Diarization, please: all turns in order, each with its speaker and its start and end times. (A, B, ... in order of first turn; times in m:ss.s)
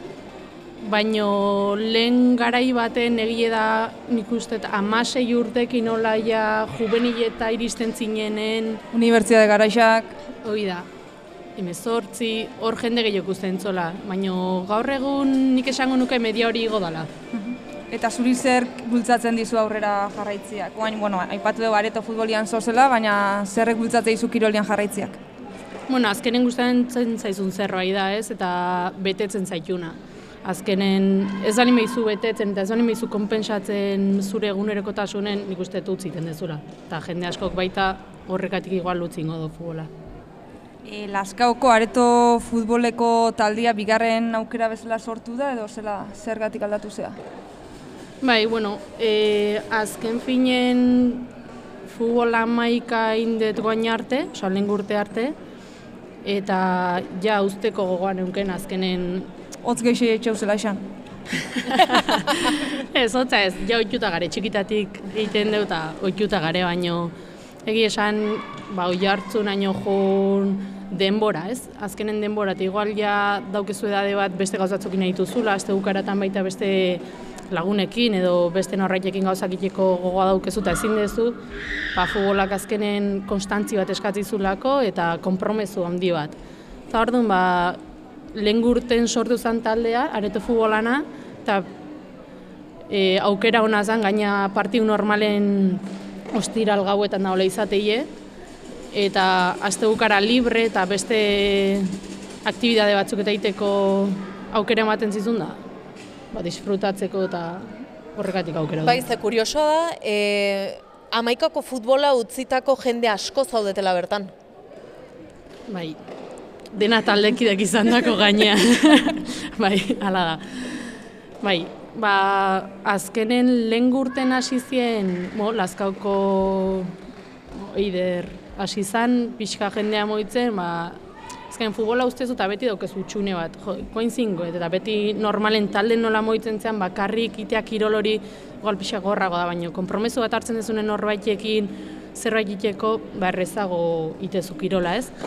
0:00.8-0:08.8 A
0:08.9-0:10.1 B
0:10.4-0:10.9 A
0:11.6-0:17.1 A
0:17.4-0:25.2 B
0:25.9-0:39.9 A
0:40.8-0:47.2 B
0:48.2-0:51.3 A
0:51.8-0:55.3 A
0:56.2-0:59.3 A
0:59.6-1:00.8 B
1:01.7-1:07.1 A
1:07.6-1:21.4 A
1:21.9-1:26.3 A
1:26.9-1:27.8 A
1:28.3-1:31.7 A
1:32.9-1:38.1 A
1:38.9-1:41.9 A
1:42.4-1:45.6 A
1:46.3-1:49.0 A
1:48.8-1:54.3 C
1:55.7-1:56.0 A
1:56.7-2:00.8 A
2:01.4-2:06.9 A
2:07.5-2:25.1 A